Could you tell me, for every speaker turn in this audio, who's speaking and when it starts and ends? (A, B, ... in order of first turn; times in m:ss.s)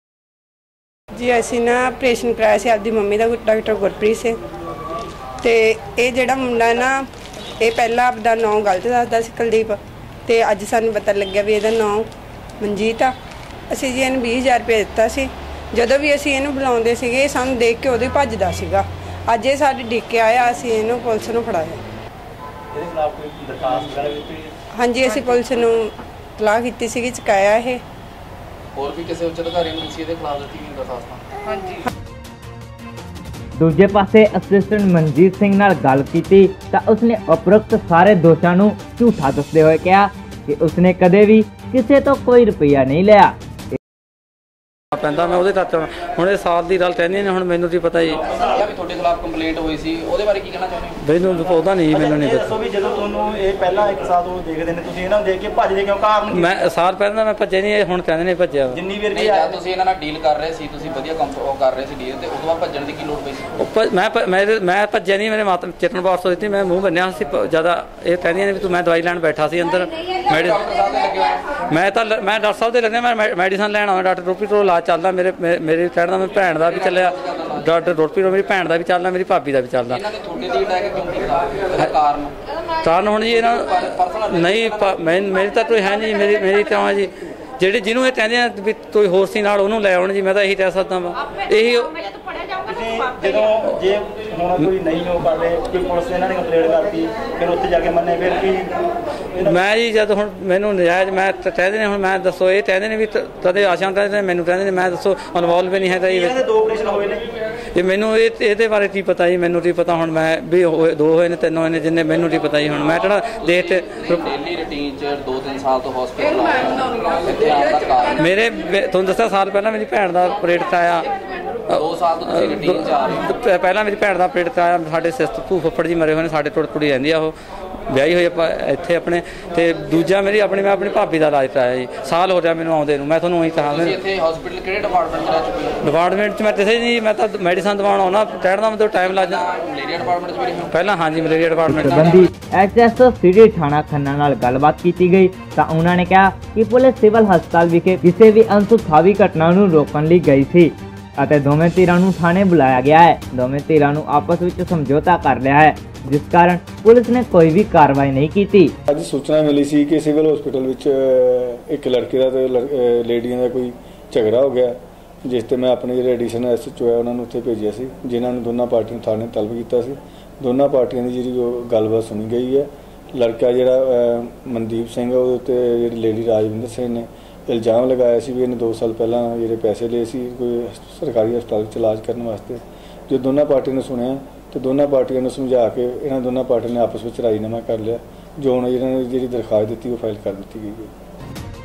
0:01.1-0:04.4 A
0:05.4-0:07.0 A
0:07.6-0:12.1 A
0:12.6-0:13.1 A
0:13.7-0:21.8 A
0:22.7-0:24.5 B
0:24.8-0:27.8 A
0:28.7-0:31.3 C
0:31.5-0:31.9 A
0:33.6-0:43.4 D
0:44.9-0:48.2 E
0:48.3-0:51.0 C
0:51.0-0:52.5 E
0:51.9-0:56.5 B
0:56.3-0:58.8 E
0:58.7-0:59.6 B
0:59.1-1:03.5 C
1:03.6-1:10.7 E
1:10.1-1:11.5 C
1:11.7-1:20.0 E
1:16.8-1:17.7 C
1:19.9-1:22.3 C
1:22.8-1:32.0 E
1:23.3-1:25.0 C
1:32.6-1:38.7 B
1:39.4-1:46.4 E
1:46.1-1:47.2 B
1:47.8-1:54.2 E
1:53.7-1:58.2 C
1:58.2-2:01.1 E
2:01.7-2:03.3 C
2:01.7-2:07.3 E
2:07.9-2:14.0 E
2:13.7-2:15.8 C
2:15.8-2:19.4 E
2:19.0-2:20.7 C
2:20.7-2:22.1 E
2:21.7-2:22.3 C
2:21.7-2:38.8 D
2:38.9-3:10.9 F